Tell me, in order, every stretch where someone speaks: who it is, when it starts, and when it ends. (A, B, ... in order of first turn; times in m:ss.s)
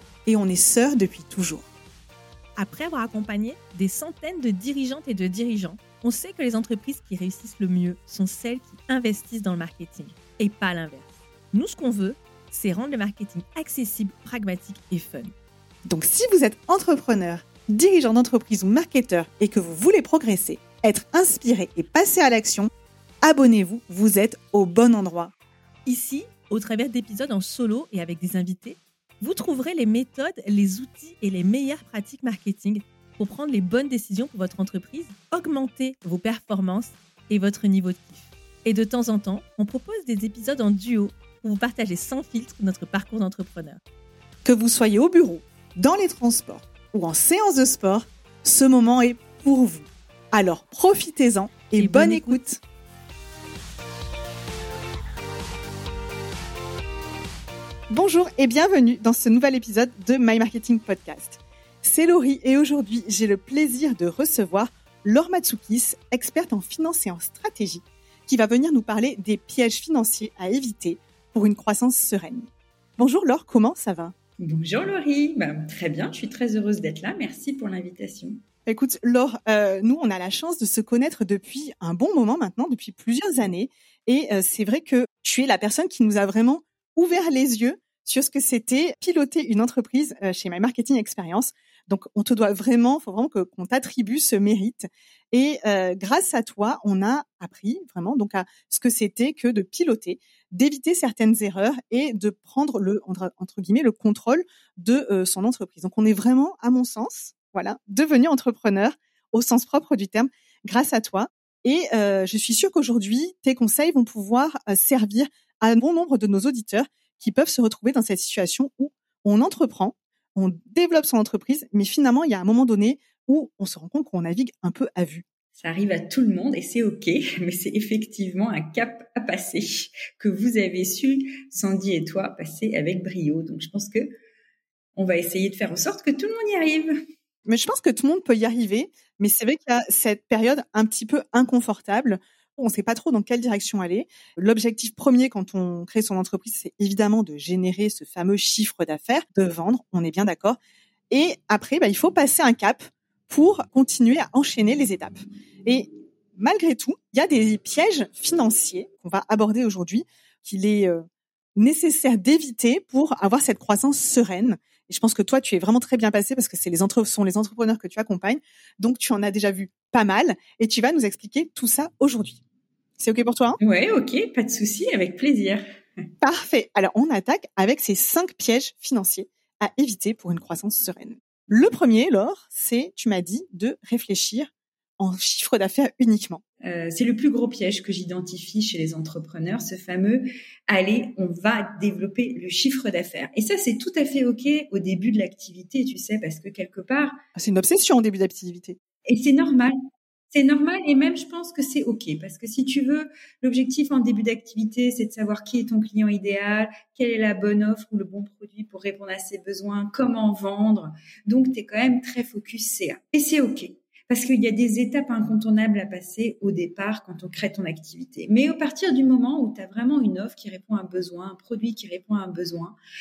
0:00.2-0:01.7 A
0:02.6-0:15.3 B
0:15.8-0:22.7 A
0:23.2-0:25.3 A
0:25.8-0:43.8 B
0:44.4-0:52.6 A
0:51.8-0:52.4 B
0:57.9-1:14.1 A
1:14.4-1:18.4 C
1:18.6-2:05.2 A
2:05.5-2:14.1 C
2:15.0-2:16.9 C
2:17.4-2:30.6 A
2:31.1-2:41.0 A
2:41.6-2:52.4 A
2:53.0-2:53.6 A
2:53.6-2:55.6 C
2:56.2-3:06.4 A
3:06.6-3:17.2 C
3:17.3-3:18.8 A
3:19.1-3:19.7 C
3:20.3-3:42.8 C